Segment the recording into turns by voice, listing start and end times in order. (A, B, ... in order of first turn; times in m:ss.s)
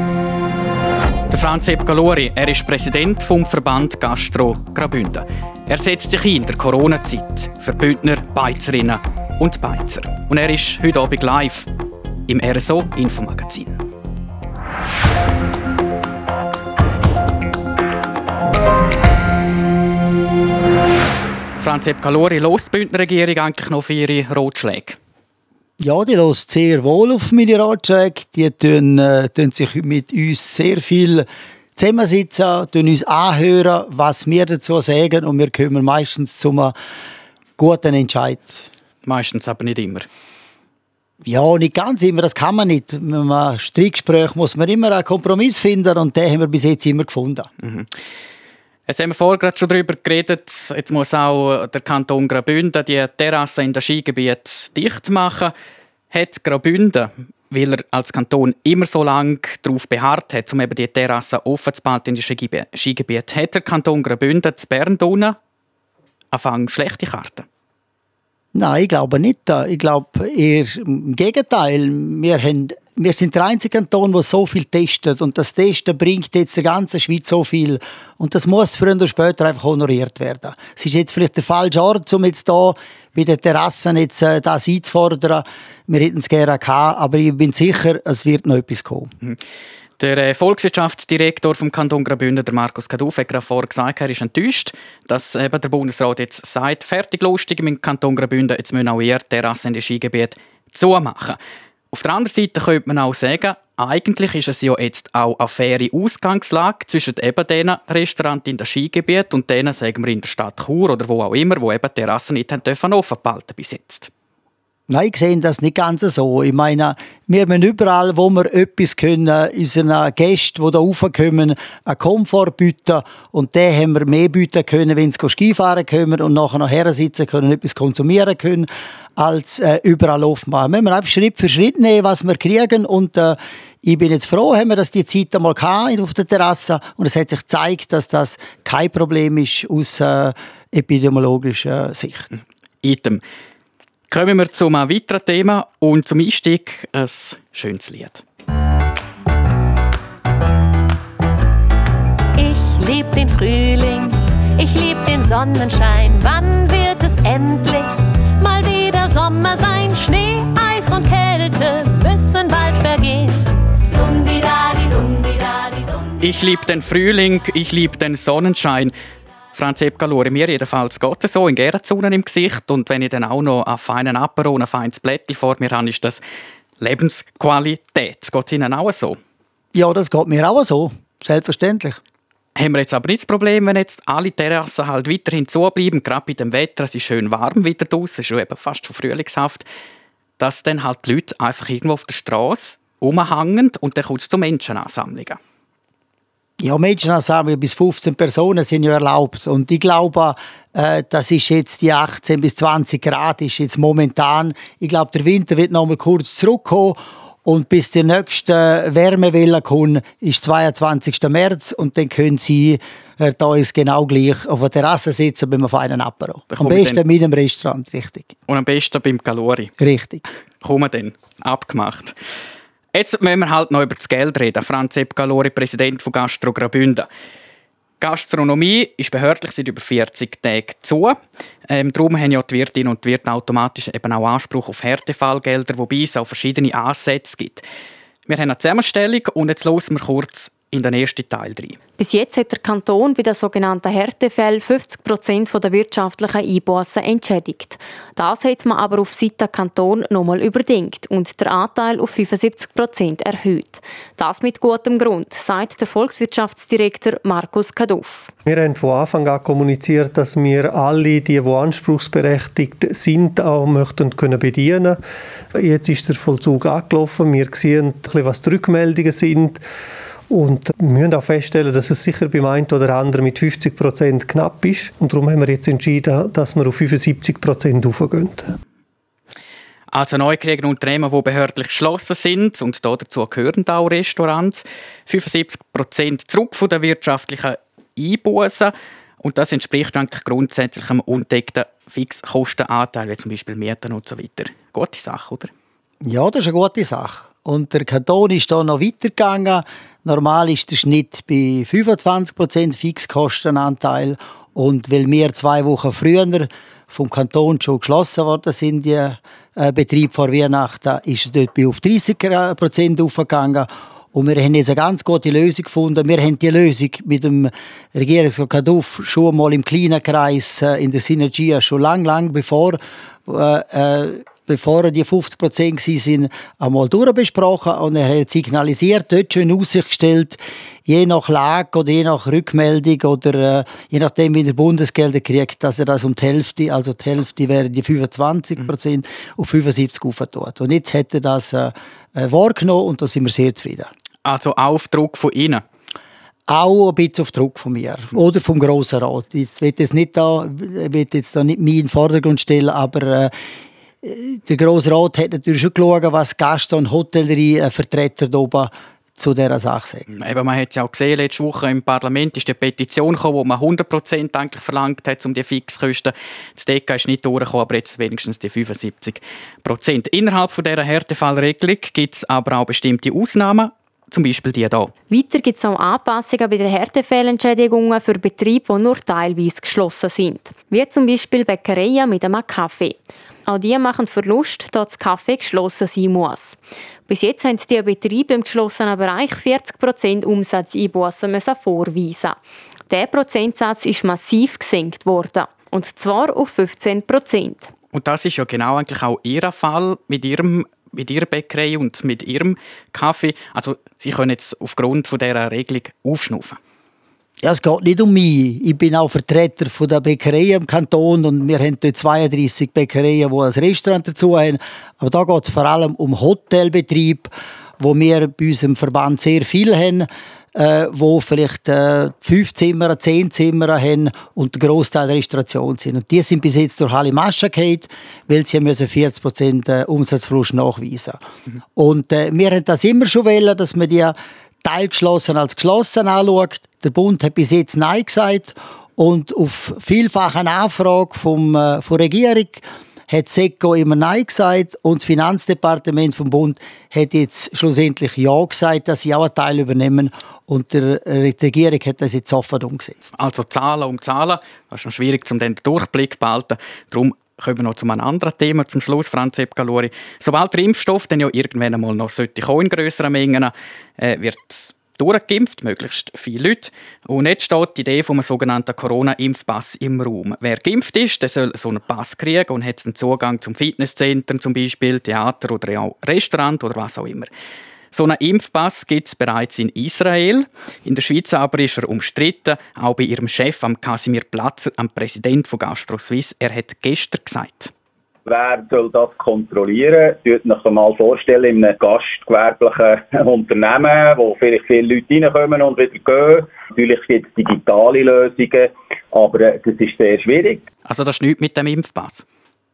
0:01.3-0:11.7 A
0:12.3-0:13.8 A
0:21.6-0:25.0 A
0:25.8-0:36.8 B
0:37.6-0:38.6 B
0:39.1-0:40.1 A
0:41.2-0:47.5 B
0:47.6-0:47.9 A
0:48.9-0:55.5 A
0:56.1-1:05.4 A
1:06.3-1:07.5 A
1:08.5-1:29.1 B
1:30.0-1:41.4 A
1:41.9-1:54.1 A
1:54.9-2:22.3 B
2:22.8-2:23.2 A
2:24.1-2:28.2 A
2:32.4-2:46.2 C
2:46.2-2:48.9 A
2:49.5-2:56.2 A
2:56.8-2:59.2 A
2:59.7-3:02.0 B
3:02.6-3:09.7 A
3:10.4-3:15.4 A
3:16.6-3:38.3 B
3:36.5-3:37.0 A
3:38.5-3:39.7 A
3:39.8-3:40.2 B
3:40.6-3:42.2 A
3:42.9-3:47.1 A
3:48.0-3:57.6 A
3:58.3-4:01.8 A
4:02.0-4:18.3 D
4:18.5-4:25.0 E
4:25.5-4:29.6 E
4:30.3-4:38.5 E
4:39.9-4:55.5 A
4:56.0-5:43.9 B
5:44.2-5:45.6 A
5:46.5-5:53.3 B
5:54.0-6:00.1 B
6:00.1-6:14.9 A
6:15.1-6:37.7 D
6:37.9-6:46.6 A
6:47.4-7:11.2 B
7:11.8-7:33.1 B
7:33.2-7:57.3 A
7:57.9-8:07.7 A
8:08.3-8:20.6 F
8:20.9-8:22.2 A